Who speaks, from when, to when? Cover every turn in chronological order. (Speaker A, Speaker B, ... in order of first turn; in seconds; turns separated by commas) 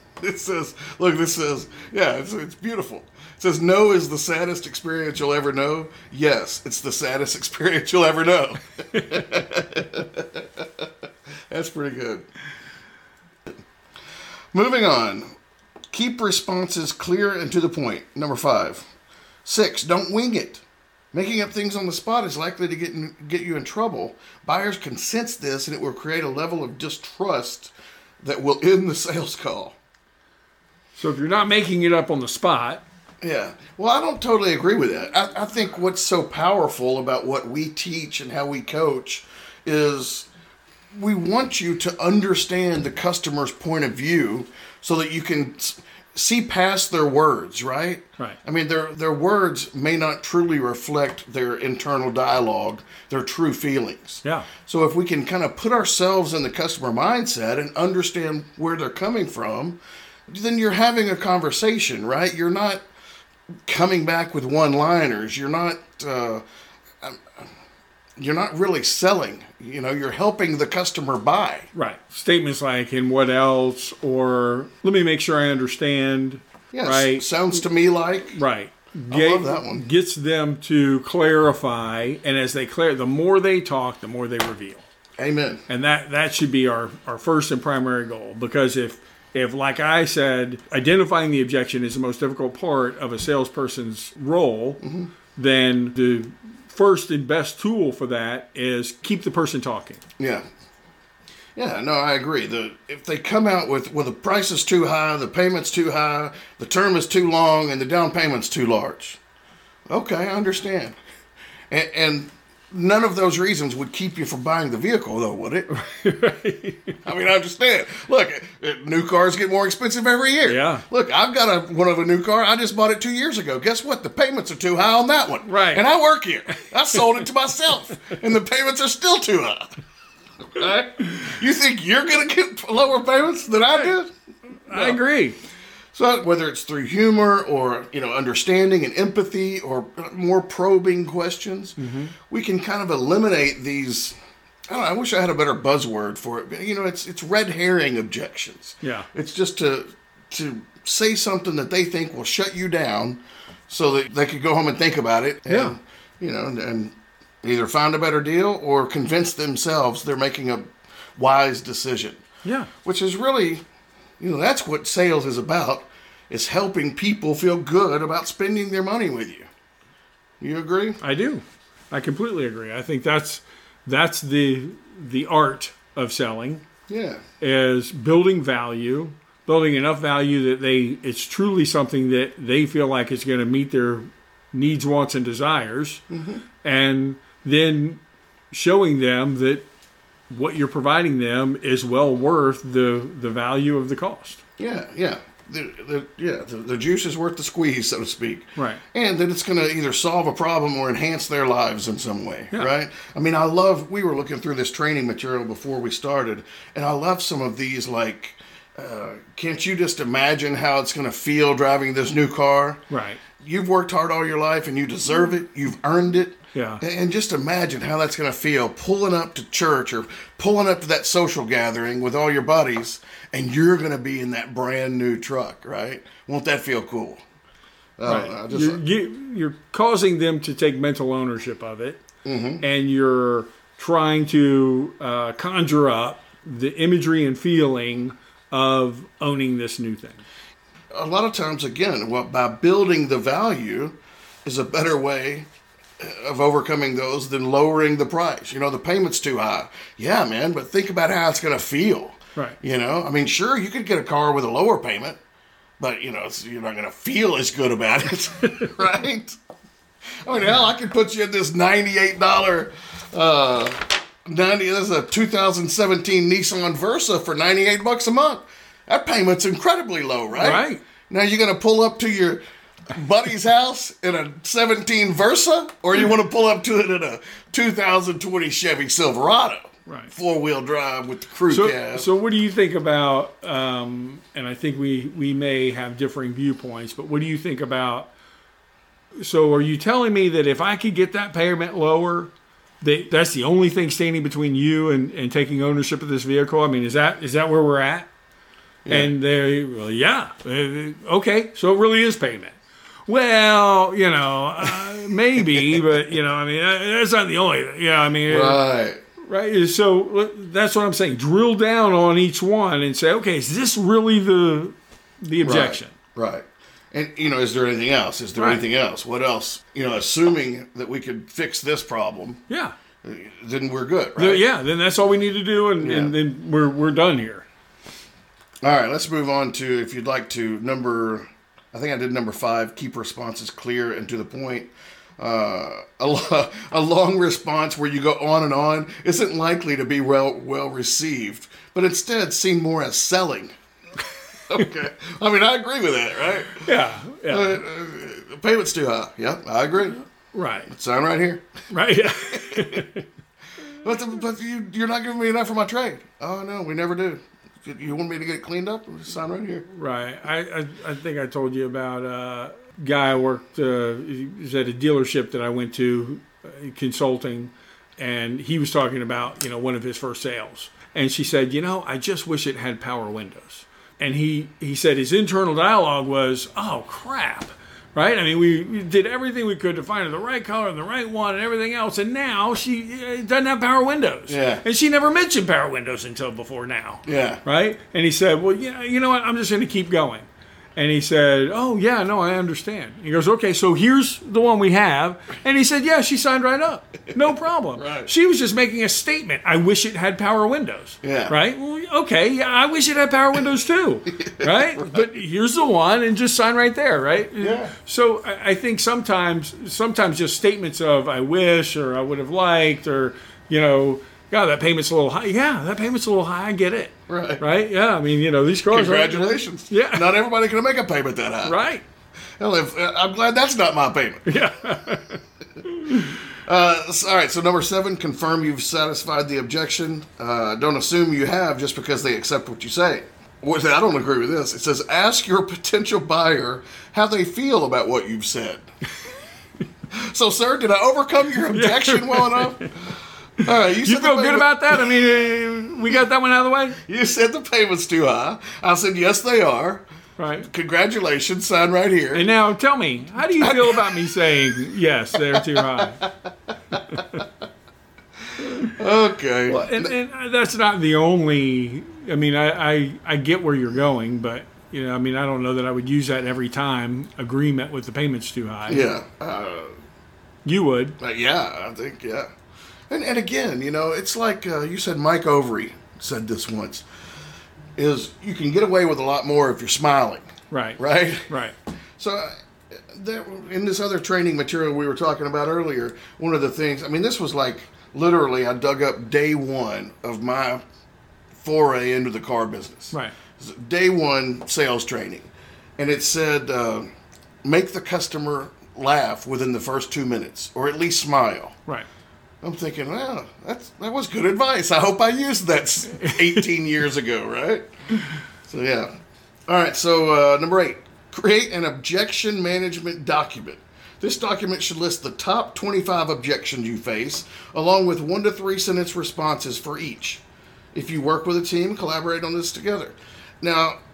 Speaker A: 0.2-10.9, Speaker B: 8.9-9.2, Speaker A: 11.5-12.2, Speaker A: 14.5-15.3, Speaker A: 15.9-18.9, Speaker A: 19.4-29.8, Speaker B: 30.9-32.8, Speaker A: 33.2-40.3, Speaker A: 40.9-62.8, Speaker A: 63.7-66.4, Speaker A: 67.0-67.5, Speaker A: 68.2-71.7, Speaker B: 71.7-77.5, Speaker A: 76.7-78.4, Speaker B: 78.3-84.8, Speaker A: 79.1-79.8, Speaker A: 85.2-85.6, Speaker B: 85.7-94.8, Speaker A: 94.8-95.1, Speaker B: 95.3-100.0, Speaker A: 100.2-100.5, Speaker A: 101.5-109.2, Speaker A: 109.9-111.0, Speaker A: 111.7-115.7, Speaker B: 115.7-117.0, Speaker A: 117.0-129.7, Speaker B: 120.4-120.8, Speaker B: 125.5-125.8, Speaker A: 130.4-134.1, Speaker B: 134.7-135.4, Speaker A: 134.7-135.0, Speaker A: 135.9-144.1, Speaker B: 141.8-142.1, Speaker A: 144.7-162.2, Speaker B: 148.8-149.1, Speaker B: 155.5-155.7, Speaker B: 162.4-162.7, Speaker A: 162.8-163.6, Speaker A: 164.2-169.5, Speaker A: 170.4-171.0, Speaker B: 171.0-176.6, Speaker A: 176.9-177.2, Speaker B: 177.4-186.0, Speaker A: 186.1-186.4, Speaker B: 186.6-188.0, Speaker B: 188.5-189.6, Speaker B: 190.3-194.4, Speaker A: 194.6-212.8, Speaker B: 198.6-198.8, Speaker B: 212.9-213.2, Speaker A: 213.4-227.2, Speaker B: 216.5-216.8, Speaker A: 228.0-228.8, Speaker B: 228.0-232.0, Speaker A: 232.2-232.6, Speaker B: 232.6-240.2, Speaker A: 240.9-245.5, Speaker A: 246.0-255.2, Speaker A: 255.8-259.4, Speaker A: 260.2-282.1, Speaker B: 270.4-270.8, Speaker B: 279.9-280.1, Speaker B: 281.5-288.1, Speaker B: 289.2-292.3, Speaker B: 292.8-298.1, Speaker A: 298.9-299.1, Speaker B: 298.9-302.6, Speaker B: 303.1-308.6, Speaker A: 308.3-309.0, Speaker B: 309.2-315.9, Speaker A: 315.4-322.4, Speaker B: 318.4-318.6, Speaker B: 322.5-322.7, Speaker A: 323.0-324.4, Speaker B: 324.2-327.4, Speaker A: 325.8-326.1, Speaker A: 328.6-343.5, Speaker A: 344.5-346.7, Speaker B: 346.6-347.6, Speaker A: 347.3-350.0, Speaker B: 350.3-350.7, Speaker A: 350.7-351.5, Speaker B: 351.7-353.0, Speaker A: 352.3-352.9, Speaker A: 353.7-359.6, Speaker B: 359.7-420.1, Speaker A: 384.3-384.6, Speaker A: 387.0-387.4, Speaker A: 397.8-398.1, Speaker A: 401.0-401.3, Speaker A: 404.2-405.0, Speaker A: 407.4-407.7, Speaker A: 417.1-417.4, Speaker A: 418.7-421.6, Speaker B: 421.4-421.8, Speaker A: 422.4-424.3, Speaker B: 424.2-426.1, Speaker A: 425.9-438.6, Speaker A: 439.9-444.9, Speaker B: 441.5-442.7, Speaker B: 443.8-446.8, Speaker A: 446.9-449.8, Speaker B: 450.2-450.5, Speaker A: 450.4-452.3, Speaker B: 452.1-456.0, Speaker A: 453.4-454.2, Speaker A: 455.3-456.1, Speaker B: 456.7-457.2, Speaker A: 456.7-457.2, Speaker A: 458.6-459.9, Speaker B: 459.5-468.9, Speaker A: 468.7-469.7, Speaker B: 470.4-471.0, Speaker A: 471.0-472.3, Speaker A: 472.9-476.8, Speaker A: 477.8-480.3, Speaker B: 480.5-481.5, Speaker A: 480.8-481.3, Speaker A: 482.0-490.6, Speaker A: 491.4-496.9, Speaker A: 497.4-501.6, Speaker A: 502.4-507.7, Speaker B: 506.0-506.4, Speaker A: 508.5-508.9, Speaker A: 509.5-520.2, Speaker A: 520.7-523.8